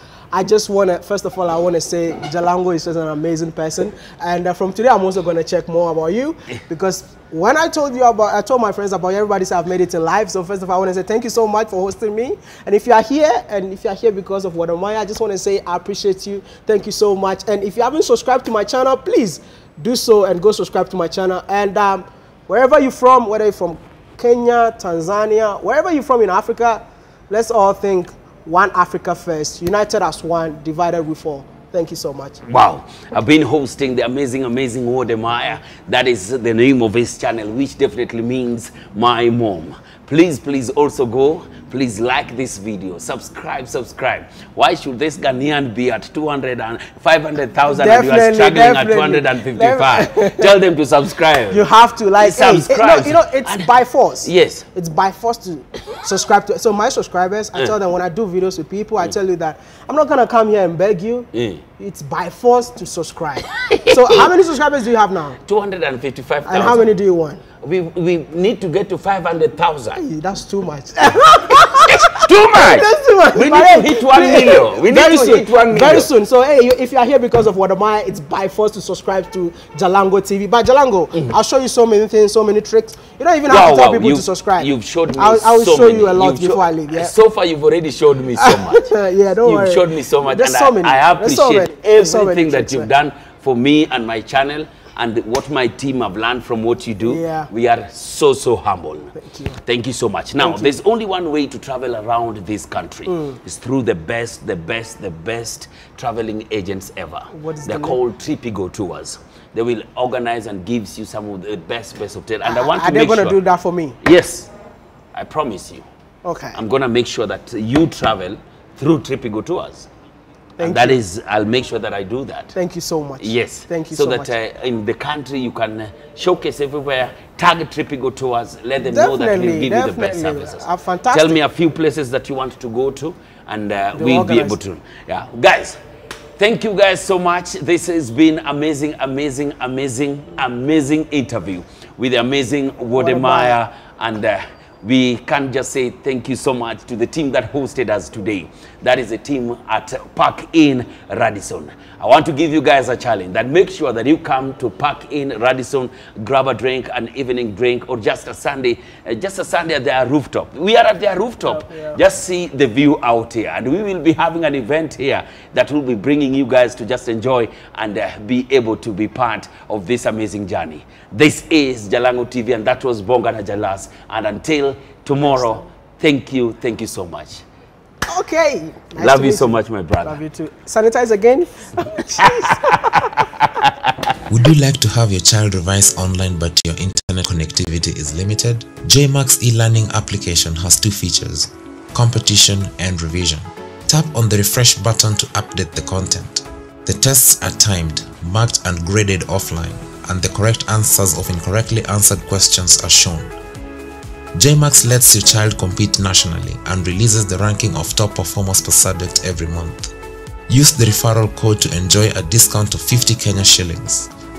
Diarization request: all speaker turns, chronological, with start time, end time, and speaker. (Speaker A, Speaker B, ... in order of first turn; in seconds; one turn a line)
Speaker A: 0.3-32.4
Speaker B: 32.5-51.6
Speaker A: 47.7-50.5
Speaker A: 51.5-65.4
Speaker B: 52.2-53.7
Speaker B: 54.2-54.6
Speaker B: 61.3-61.6
Speaker B: 63.5-64.3
Speaker B: 65.4-66.9
Speaker A: 66.5-67.4
Speaker B: 67.6-70.0
Speaker A: 70.0-87.1
Speaker B: 71.5-76.1
Speaker B: 83.5-99.1
Speaker A: 88.4-92.9
Speaker A: 97.0-97.5
Speaker A: 99.2-99.6
Speaker B: 99.6-113.4
Speaker A: 100.4-100.7
Speaker A: 103.1-103.4
Speaker A: 107.3-108.0
Speaker A: 112.4-114.0
Speaker B: 114.0-114.5
Speaker B: 115.1-115.8
Speaker A: 116.2-116.6
Speaker B: 116.5-119.9
Speaker A: 120.6-121.0
Speaker B: 120.6-122.5
Speaker A: 122.5-124.3
Speaker B: 123.2-135.8
Speaker A: 128.8-131.4
Speaker A: 133.9-134.6
Speaker B: 136.4-177.4
Speaker A: 142.9-143.6
Speaker A: 161.4-162.0
Speaker A: 175.2-175.7
Speaker A: 178.1-182.8
Speaker B: 179.0-180.2
Speaker B: 182.2-184.2
Speaker C: 184.3-203.3
Speaker C: 204.3-209.9
Speaker C: 210.5-214.1